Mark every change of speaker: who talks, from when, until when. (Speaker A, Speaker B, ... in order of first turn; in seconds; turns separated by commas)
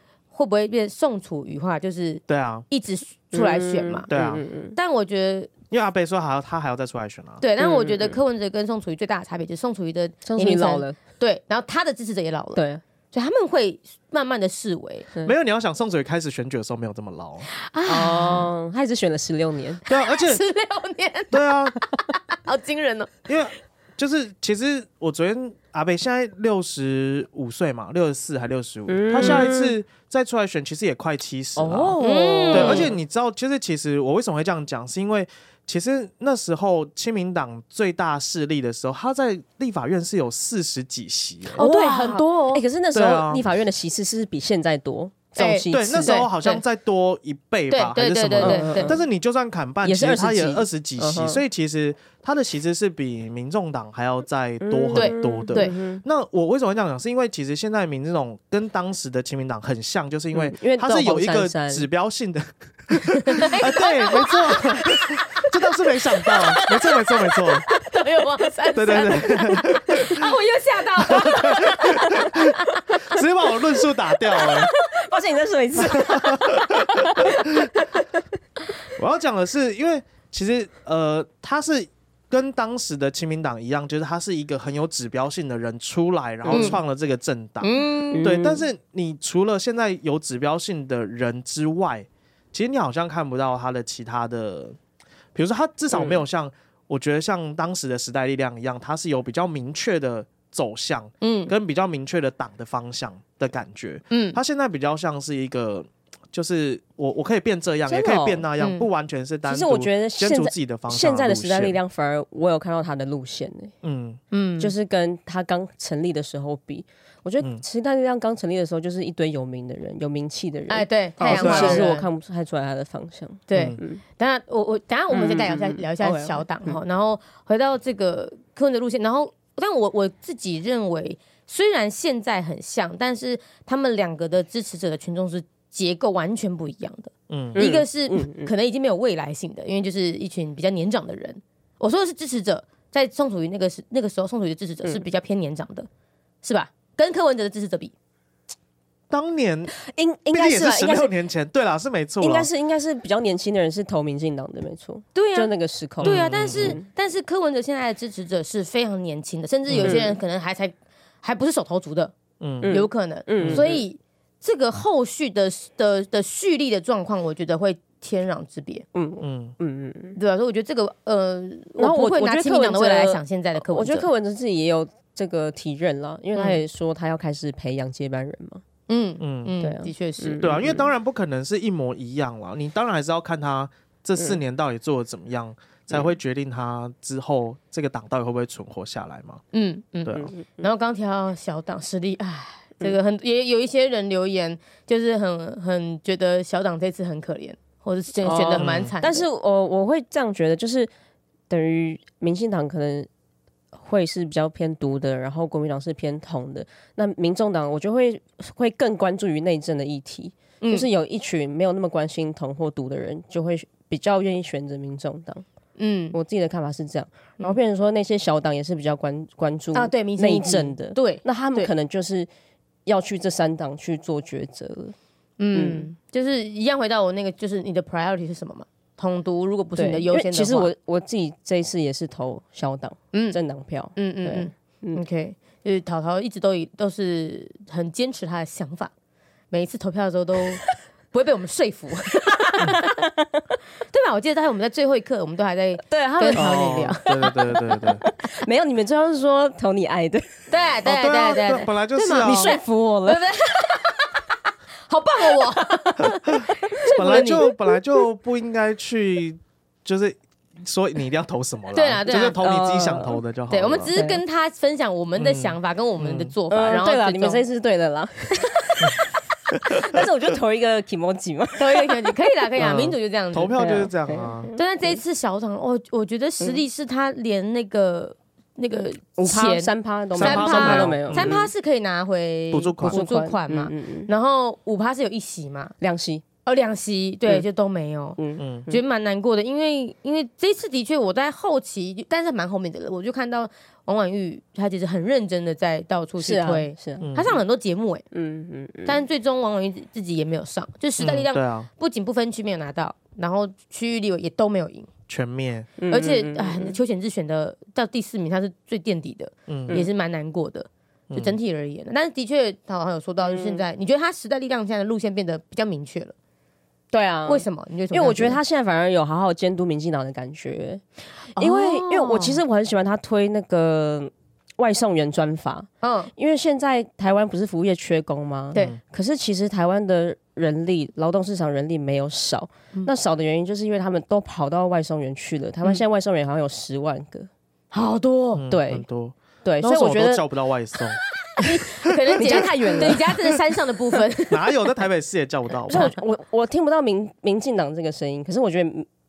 Speaker A: 0.3-4.1, Speaker B: 2.3-2.7, Speaker C: 3.3-4.8, Speaker B: 4.1-4.4, Speaker A: 4.8-5.5, Speaker B: 5.7-7.4, Speaker A: 7.4-15.1, Speaker C: 7.6-8.2, Speaker C: 10.2-11.0, Speaker C: 12.6-12.8, Speaker B: 15.2-17.5, Speaker A: 17.5-18.5, Speaker C: 17.9-19.8, Speaker B: 19.9-20.4, Speaker A: 20.1-23.2, Speaker B: 21.3-21.8, Speaker B: 23.3-32.0, Speaker C: 28.9-29.7, Speaker A: 29.2-29.5, Speaker C: 31.6-33.0, Speaker A: 32.0-32.9, Speaker B: 32.5-41.6, Speaker A: 41.5-42.6, Speaker C: 41.5-46.2, Speaker B: 42.9-43.4, Speaker A: 45.4-46.6, Speaker B: 45.7-67.7, Speaker A: 47.7-49.0, Speaker C: 48.4-49.0, Speaker C: 49.8-51.4, Speaker C: 54.6-56.0, Speaker A: 54.9-55.7, Speaker C: 60.3-61.9, Speaker A: 63.2-65.5, Speaker A: 66.2-66.6, Speaker A: 67.7-73.2, Speaker B: 68.7-70.3, Speaker B: 71.0-74.7, Speaker C: 74.3-78.2, Speaker B: 75.8-77.7, Speaker B: 79.0-94.8, Speaker C: 86.5-86.8, Speaker A: 86.5-86.8, Speaker A: 87.6-88.4, Speaker C: 88.1-88.6, Speaker B: 95.3-111.8, Speaker A: 101.2-101.5, Speaker A: 104.1-104.4, Speaker C: 107.9-108.5, Speaker A: 108.6-108.8, Speaker C: 109.5-113.7, Speaker B: 113.8-114.2, Speaker A: 114.3-114.7, Speaker C: 114.6-124.0, Speaker A: 120.7-122.1, Speaker B: 121.2-121.9, Speaker A: 123.5-145.9, Speaker C: 125.1-126.8, Speaker B: 137.3-137.6, Speaker C: 137.5-138.5, Speaker A: 146.4-147.9, Speaker B: 149.1-149.7, Speaker C: 149.8-151.1, Speaker B: 150.3-152.5, Speaker C: 152.2-156.8, Speaker A: 155.1-162.1, Speaker B: 156.0-156.8, Speaker B: 159.7-160.0, Speaker C: 159.8-160.2, Speaker B: 162.4-162.8, Speaker C: 162.6-163.8, Speaker A: 162.7-168.8, Speaker B: 163.4-163.7, Speaker C: 168.9-170.2, Speaker B: 169.2-169.6, Speaker A: 170.2-174.1, Speaker C: 171.8-178.6, Speaker A: 176.3-176.6, Speaker A: 178.9-180.8, Speaker B: 179.2-179.5, Speaker C: 179.6-180.8, Speaker B: 180.4-189.4, Speaker A: 189.5-199.2, Speaker B: 190.1-190.3, Speaker C: 198.2-200.9, Speaker B: 198.6-198.9, Speaker C: 201.5-203.1, Speaker C: 203.7-215.4, Speaker A: 210.6-210.8, Speaker A: 215.8-216.2, Speaker C: 216.1-222.3, Speaker A: 219.7-221.7, Speaker C: 222.8-224.9, Speaker A: 225.4-230.7, Speaker C: 225.5-225.9, Speaker C: 229.8-235.0, Speaker A: 233.1-233.4, Speaker A: 233.9-238.9, Speaker A: 239.5-243.0, Speaker A: 243.9-247.5, Speaker C: 245.9-246.7, Speaker B: 246.3-248.0, Speaker C: 247.8-250.4, Speaker A: 250.5-254.2, Speaker B: 250.8-252.6, Speaker C: 252.2-253.7, Speaker A: 254.9-257.4, Speaker C: 256.8-257.5, Speaker B: 256.9-263.9, Speaker A: 261.7-262.4, Speaker C: 262.4-263.2, Speaker A: 263.5-267.4, Speaker C: 263.9-264.2, Speaker B: 265.1-266.3, Speaker C: 266.5-272.2, Speaker B: 269.5-270.0, Speaker A: 271.6-273.6, Speaker B: 272.6-274.5, Speaker C: 273.6-274.9, Speaker A: 274.6-285.7, Speaker C: 279.2-281.5, Speaker B: 280.1-281.4, Speaker B: 282.5-283.0, Speaker C: 282.8-284.1, Speaker C: 285.8-286.2, Speaker A: 286.4-298.0, Speaker C: 288.2-288.8, Speaker B: 288.4-288.7, Speaker C: 296.2-297.1, Speaker B: 297.0-297.4, Speaker C: 298.1-299.0, Speaker A: 298.8-304.9, Speaker B: 301.0-301.7, Speaker B: 305.1-305.7, Speaker C: 305.8-306.8, Speaker A: 305.9-316.1, Speaker B: 309.5-309.8, Speaker B: 311.1-311.4, Speaker C: 313.2-313.6, Speaker C: 316.9-320.8, Speaker A: 317.2-318.4, Speaker C: 321.3-337.3, Speaker A: 321.4-322.4, Speaker A: 325.8-326.1, Speaker A: 337.7-338.4, Speaker B: 338.3-341.0, Speaker C: 338.5-338.9, Speaker C: 339.4-340.2, Speaker A: 341.4-344.5, Speaker B: 342.1-342.9, Speaker C: 342.2-343.3, Speaker B: 344.3-345.9, Speaker C: 345.7-348.9, Speaker A: 345.7-345.9